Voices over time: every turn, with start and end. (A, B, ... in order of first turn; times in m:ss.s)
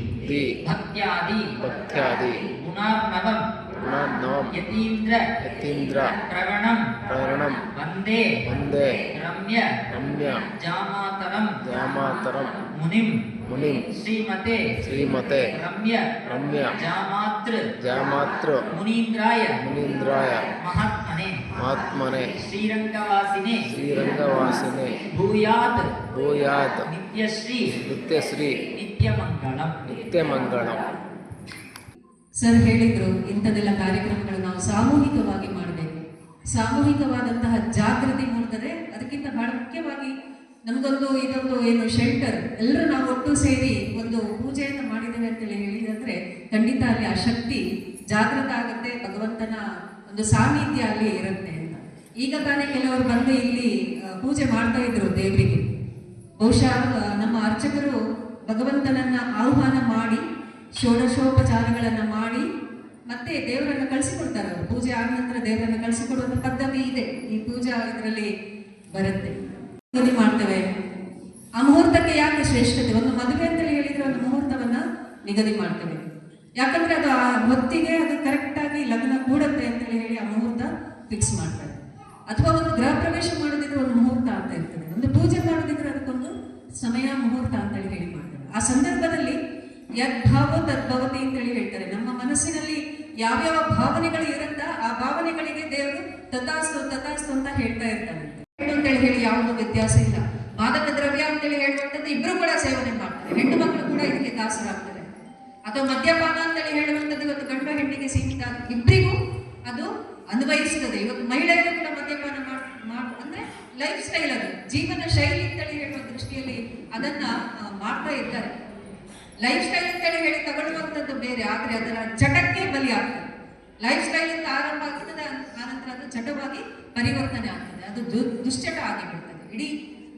0:00.6-0:01.5 A
0:01.6-0:02.4 B
0:02.6-0:03.4 A
0:03.8-0:04.5 B
0:04.6-0:05.2 A
0:05.4-0:06.1 B
0:06.3-0:06.9 A
0:07.1-0:07.6 B
0:07.7-0:08.2 A
0:08.5-0:09.0 B
0:09.2-0:09.7 A
0:09.9-0:10.4 B
0:10.6-0:11.6 A
0:11.6-0:12.5 B
0:12.8-0:13.2 A
0:13.5-0:13.8 B
0:13.9-0:16.1 A
0:14.8-0:15.5 B
0:16.3-0:16.8 B
0:16.7-0:17.6 A
0:17.8-0:18.6 B
0:18.7-0:19.6 A
0:19.6-0:20.5 B
0:20.6-0:21.4 A
0:21.6-0:22.3 B
0:22.3-0:23.6 A
0:23.8-0:24.9 B
0:25.1-0:25.9 A
0:26.2-0:26.7 B
0:26.9-0:27.7 A
0:27.9-0:28.5 B
0:28.7-0:30.1 A
0:30.1-0:30.8 B
0:32.4-0:36.0 C
0:36.5-0:40.1 C
0:40.7-0:47.6 C
0:48.1-0:49.6 C
0:50.1-0:53.7 C
0:54.2-0:55.6 C
0:56.4-0:58.0 C
0:58.5-1:00.2 C
1:00.8-1:02.4 C
1:03.1-1:08.3 C
1:08.9-1:09.4 C
1:09.9-1:10.6 C
1:11.6-1:16.1 C
1:16.6-1:26.3 C
1:26.8-1:29.4 C
1:30.0-1:45.1 C
1:45.7-1:49.2 C
1:49.7-1:58.5 C
1:59.4-2:03.3 C
2:03.8-2:09.7 C